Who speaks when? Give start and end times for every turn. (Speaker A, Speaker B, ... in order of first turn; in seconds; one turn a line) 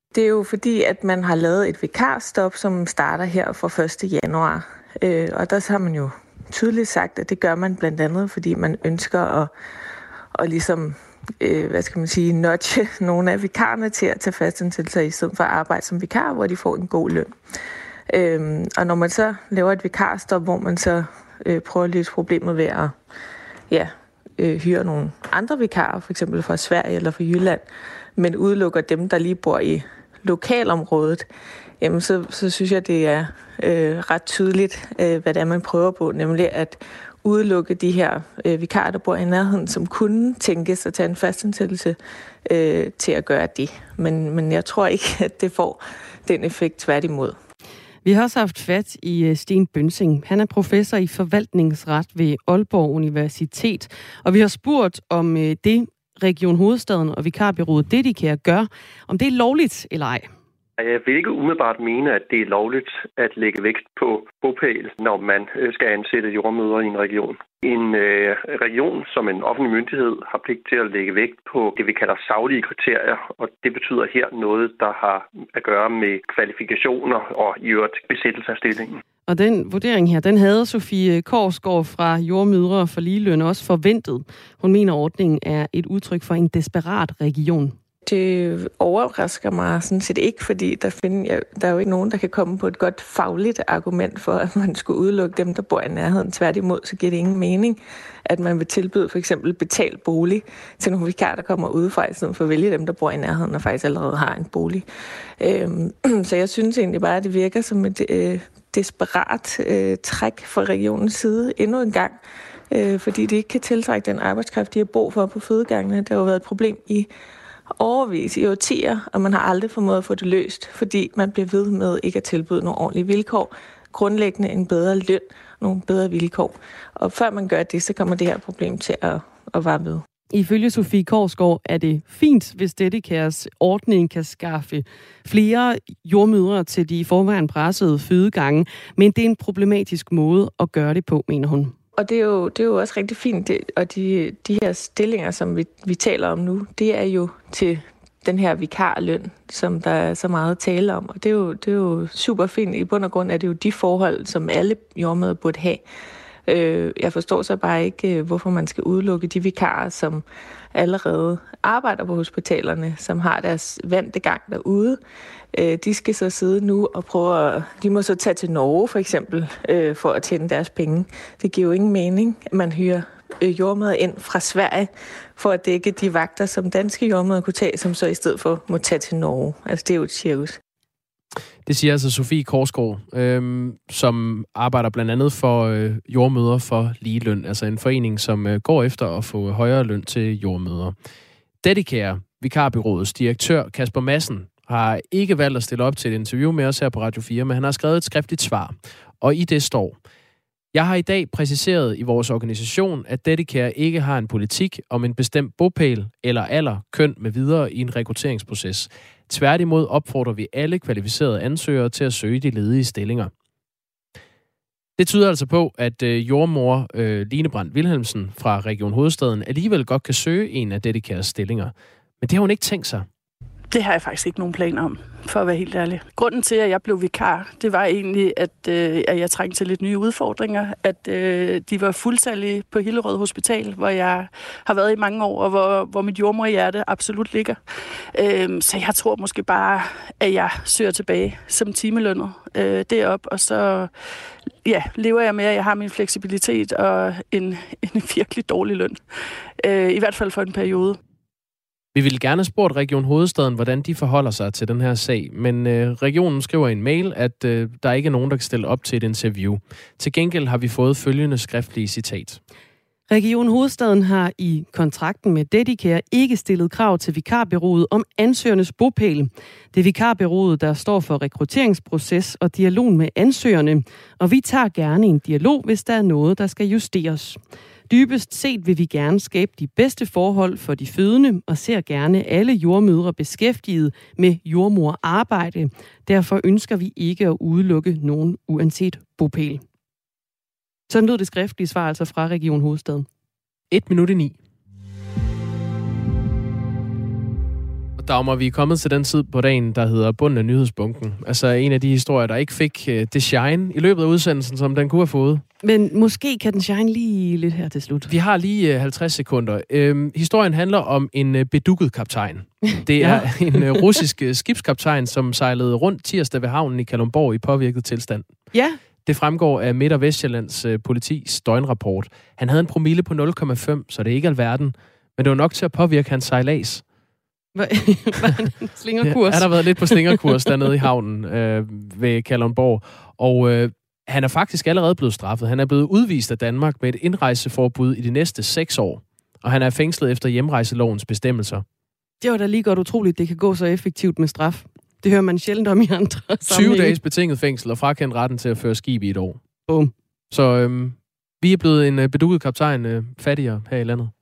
Speaker A: 0.1-9.5
Speaker A: 10.3-17.3
Speaker A: 18.1-22.9
Speaker A: 23.7-31.2
Speaker A: 31.8-47.4
Speaker B: 48.0-60.3
Speaker C: 60.8-78.9
Speaker B: 79.3-87.8
Speaker A: 88.0-104.8
Speaker A: 105.4-112.2
Speaker A: 112.7-117.1
Speaker A: 117.8-130.0
Speaker B: 130.3-141.7
Speaker A: 142.0-155.8
Speaker A: 156.5-165.0
Speaker A: 165.5-180.6
Speaker D: 181.6-190.9
Speaker D: 191.6-200.0
Speaker D: 200.7-213.3
Speaker D: 215.0-223.1
Speaker E: 223.7-237.6
Speaker E: 238.1-243.9
Speaker E: 244.6-249.0
Speaker E: 249.6-251.0
Speaker D: 251.9-262.4
Speaker B: 263.1-289.6
Speaker B: 290.9-293.1
Speaker D: 293.7-294.4
Speaker D: 298.0-305.4
Speaker B: 305.6-308.1
Speaker D: 308.1-318.3
Speaker B: 312.9-313.8
Speaker B: 318.5-318.8
Speaker D: 319.0-326.8
Speaker B: 327.5-330.5
Speaker D: 329.0-341.6
Speaker B: 342.2-346.9
Speaker D: 346.5-349.4
Speaker D: 350.3-354.1